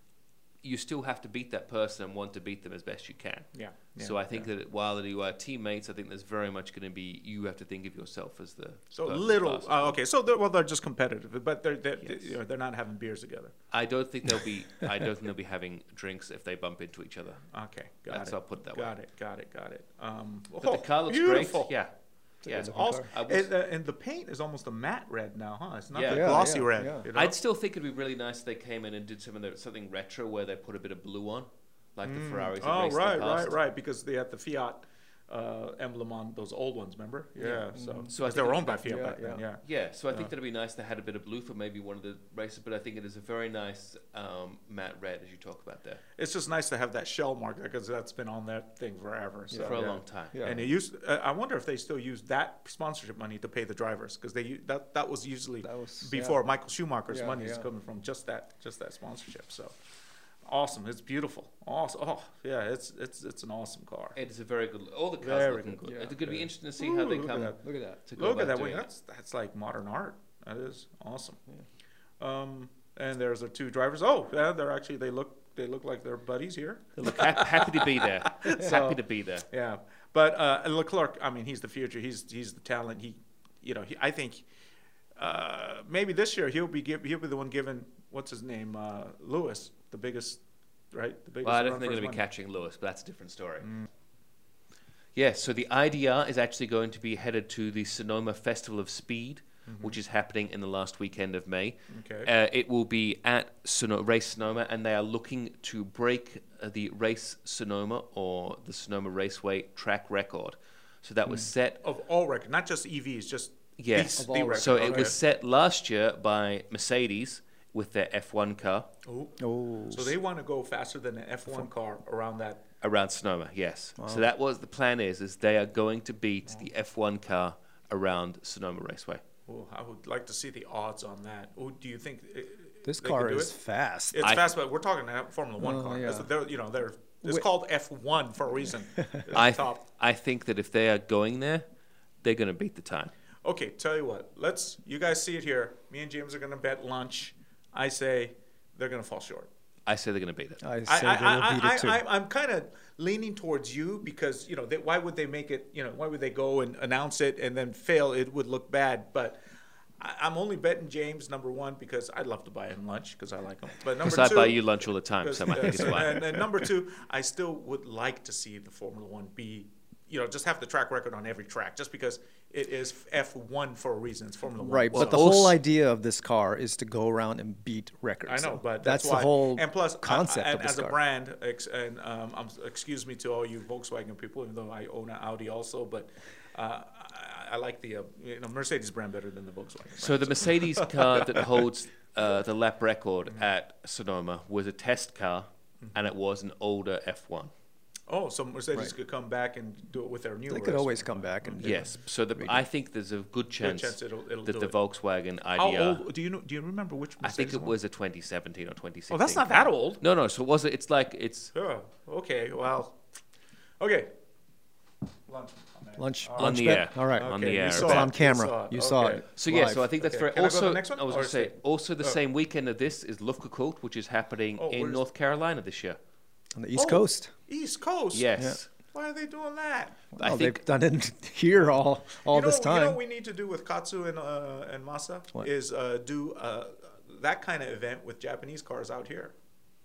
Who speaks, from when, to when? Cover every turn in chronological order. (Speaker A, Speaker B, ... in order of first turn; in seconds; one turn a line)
Speaker A: 0.6-10.0
Speaker B: 3.5-4.5
Speaker B: 8.9-13.5
Speaker A: 12.0-12.3
Speaker A: 13.7-17.4
Speaker B: 17.5-21.7
Speaker A: 18.1-18.9
Speaker A: 20.6-21.9
Speaker C: 22.4-23.1
Speaker A: 22.4-23.5
Speaker B: 22.4-27.3
Speaker A: 25.9-26.6
Speaker C: 26.0-27.1
Speaker A: 27.1-33.5
Speaker B: 32.0-40.3
Speaker A: 37.4-39.1
Speaker C: 37.7-38.1
Speaker C: 38.8-39.4
Speaker A: 39.6-46.0
Speaker B: 46.2-59.7
Speaker C: 49.5-50.7
Speaker A: 49.6-50.4
Speaker C: 55.6-56.4
Speaker C: 57.1-57.7
Speaker B: 60.5-64.2
Speaker A: 64.1-68.9
Speaker B: 65.2-67.6
Speaker C: 65.9-66.2
Speaker C: 67.6-68.0
Speaker B: 68.2-71.4
Speaker B: 72.2-84.5
Speaker A: 77.0-79.5
Speaker B: 85.2-90.4
Speaker B: 90.9-92.2
Speaker A: 91.4-93.7
Speaker A: 95.1-111.8
Speaker B: 99.7-100.0
Speaker B: 101.9-102.3
Speaker B: 111.3-115.2
Speaker A: 113.8-118.9
Speaker C: 114.2-115.1
Speaker B: 119.0-122.6
Speaker C: 119.4-120.2
Speaker A: 122.8-129.2
Speaker C: 124.0-124.3
Speaker B: 129.5-133.5
Speaker C: 132.8-134.3
Speaker B: 134.1-139.8
Speaker C: 135.6-136.3
Speaker A: 139.3-141.7
Speaker A: 142.2-143.1
Speaker B: 143.4-149.5
Speaker A: 149.8-150.6
Speaker C: 150.6-152.0
Speaker B: 150.8-159.4
Speaker B: 160.0-175.5
Speaker A: 164.0-166.2
Speaker C: 174.6-181.0
Speaker A: 174.9-175.5
Speaker B: 178.2-191.5
Speaker A: 190.0-197.5
Speaker B: 198.1-201.9
Speaker C: 200.5-202.7
Speaker A: 201.6-206.0
Speaker B: 203.6-204.8
Speaker B: 205.6-207.7
Speaker A: 207.2-211.5
Speaker B: 209.1-210.0
Speaker B: 211.5-213.0
Speaker B: 213.8-214.1
Speaker B: 215.3-222.2
Speaker C: 215.9-219.8
Speaker A: 216.4-218.1
Speaker A: 219.3-226.0
Speaker B: 224.6-225.0
Speaker C: 226.5-227.3
Speaker B: 226.7-230.1
Speaker A: 228.1-228.6
Speaker C: 230.1-233.0
Speaker A: 230.2-230.6
Speaker B: 232.2-239.3